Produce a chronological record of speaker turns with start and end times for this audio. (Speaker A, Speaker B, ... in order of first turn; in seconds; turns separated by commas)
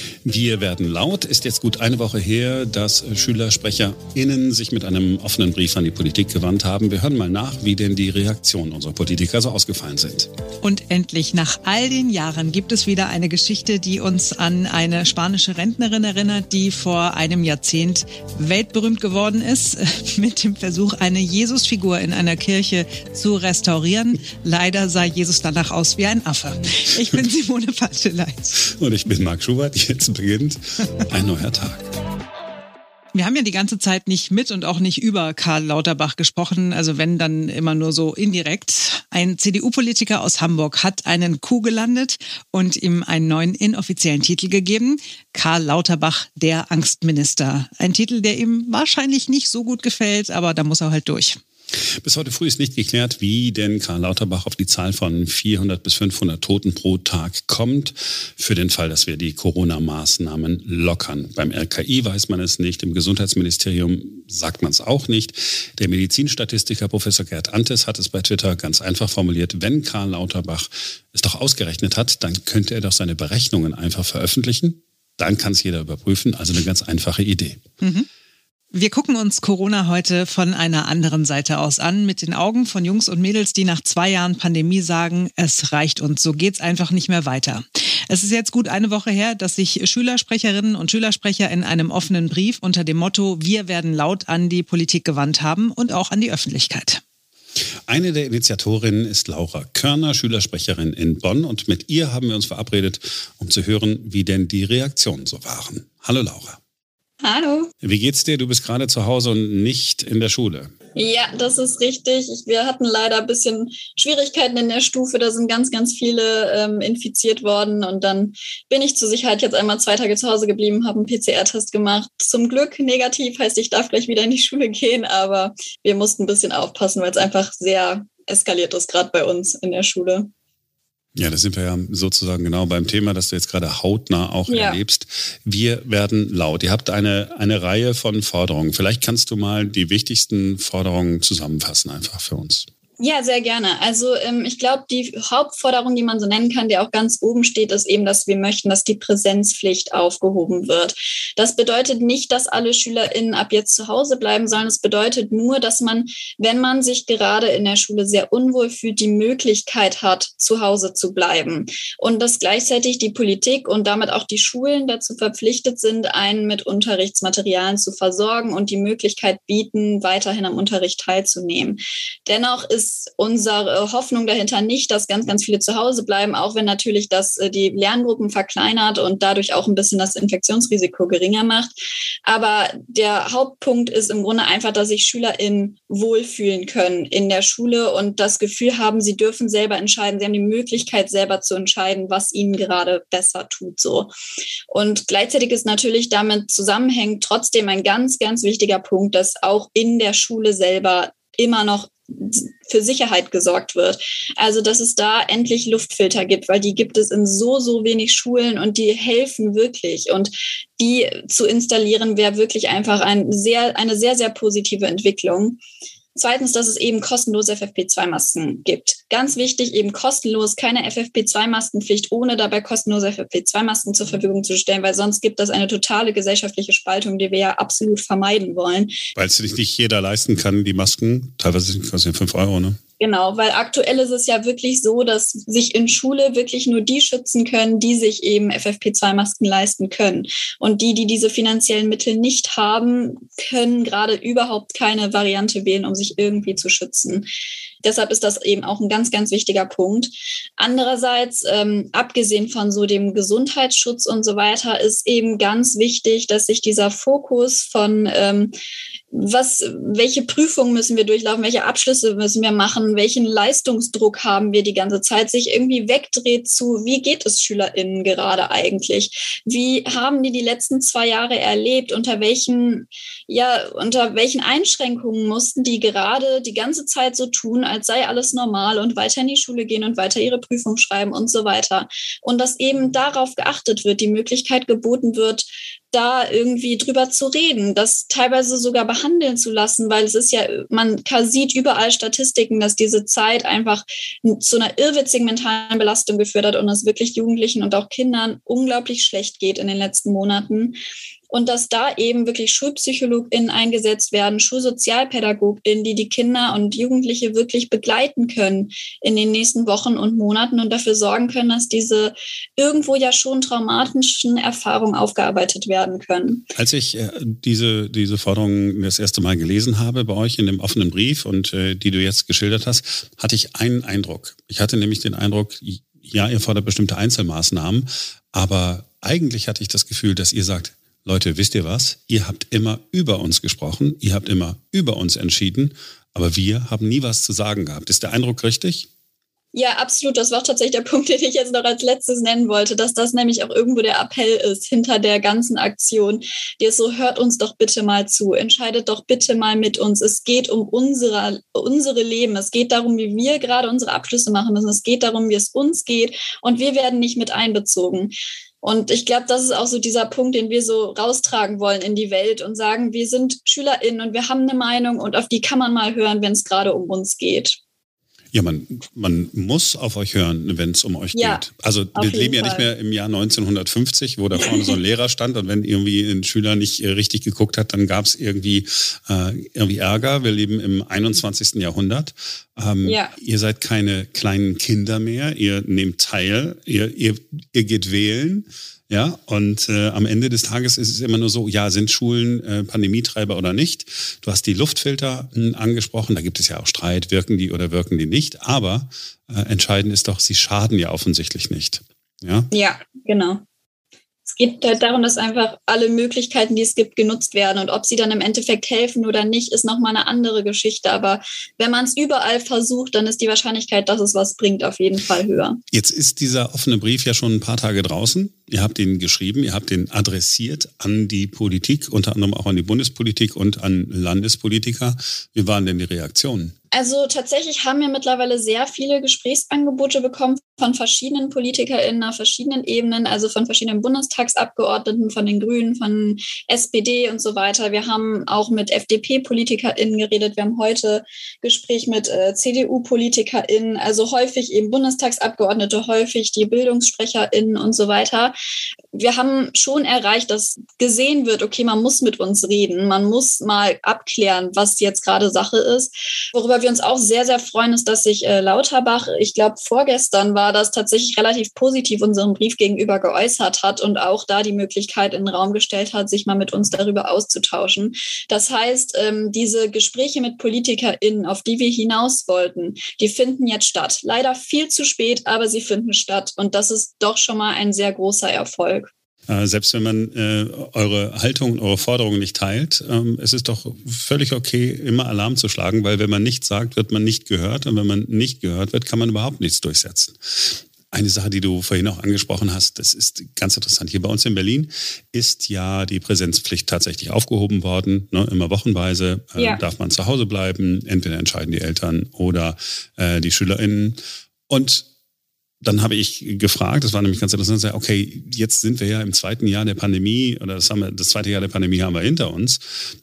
Speaker A: 0.2-10.3, Speaker B: 10.6-28.6, Speaker A: 28.7-31.9, Speaker B: 33.1-51.4, Speaker A: 52.0-77.6, Speaker B: 77.8-78.1, Speaker B: 78.7-97.0, Speaker A: 97.9-106.6, Speaker C: 107.2-107.7, Speaker A: 107.8-110.7, Speaker C: 110.9-130.3, Speaker A: 131.2-142.7, Speaker C: 134.5-134.8, Speaker C: 143.0-181.7, Speaker C: 182.2-194.1, Speaker C: 194.7-215.6, Speaker C: 216.1-229.0, Speaker A: 229.1-232.8, Speaker C: 233.0-247.3, Speaker C: 247.8-258.5, Speaker C: 259.1-300.8, Speaker C: 301.3-316.4, Speaker A: 316.5-338.9, Speaker C: 339.5-367.6, Speaker A: 368.3-402.5, Speaker C: 371.1-371.4, Speaker C: 371.9-372.7, Speaker C: 382.8-383.1, Speaker C: 402.5-403.4, Speaker C: 404.3-415.6, Speaker A: 415.7-426.5, Speaker C: 426.7-448.3, Speaker C: 448.9-478.9, Speaker A: 479.3-504.9, Speaker C: 499.4-499.6, Speaker A: 505.6-512.6